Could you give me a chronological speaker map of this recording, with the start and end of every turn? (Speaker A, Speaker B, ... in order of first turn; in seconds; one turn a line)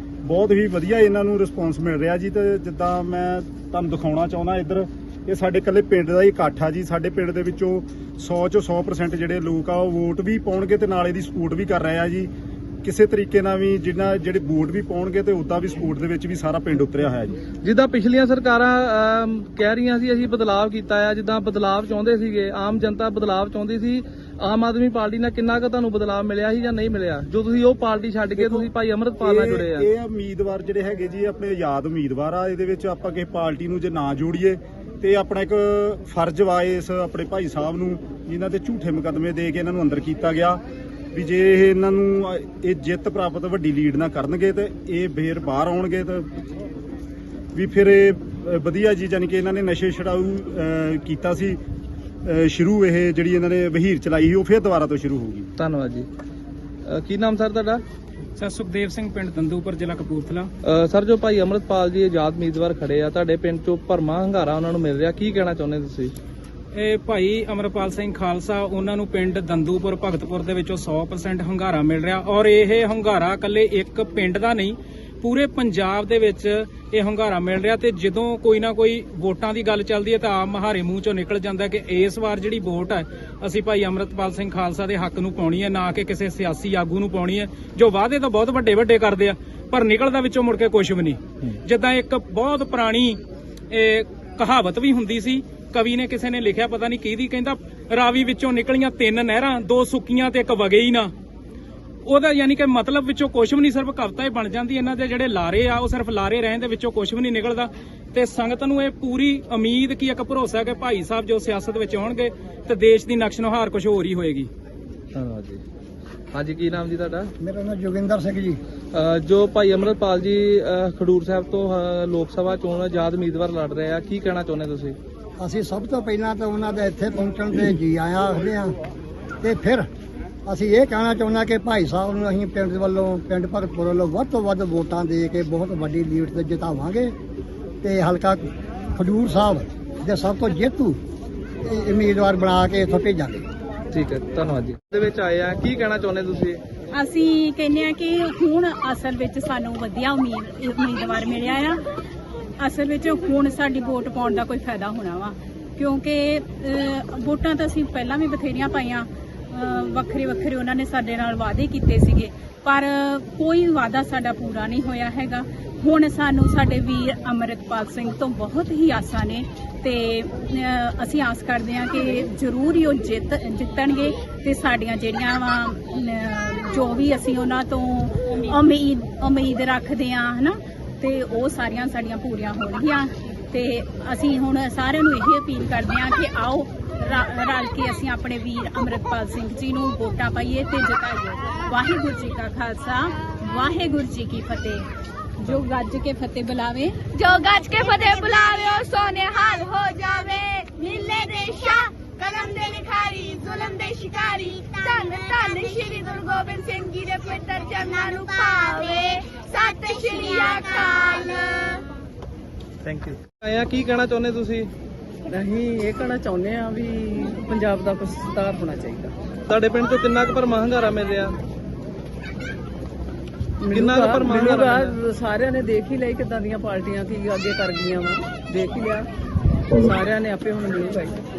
Speaker A: 0.2-12.3
Speaker A: 12.8-17.4
Speaker B: 17.6-29.9
Speaker A: 28.4-28.7
Speaker A: 29.2-40.6
Speaker A: 41.1-46.3
Speaker A: 47.5-51.6
Speaker A: 52.2-55.5
Speaker B: 55.6-56.1
Speaker B: 56.9-57.8
Speaker C: 58.4-60.5
Speaker B: 60.6-66.1
Speaker C: 66.7-101.1
Speaker C: 102.0-114.5
Speaker B: 115.1-115.6
Speaker B: 116.3-117.3
Speaker D: 117.4-118.6
Speaker B: 118.9-125.0
Speaker D: 125.4-128.7
Speaker D: 129.4-129.9
Speaker D: 130.5-137.1
Speaker D: 137.8-141.0
Speaker D: 141.6-143.4
Speaker B: 143.9-146.6
Speaker E: 146.9-151.8
Speaker E: 152.6-194.9
Speaker E: 195.4-197.0
Speaker F: 197.2-211.8
Speaker B: 212.8-214.7
Speaker G: 215.3-219.1
Speaker B: 219.5-221.3
Speaker G: 223.6-229.1
Speaker B: 223.7-224.9
Speaker G: 229.8-231.2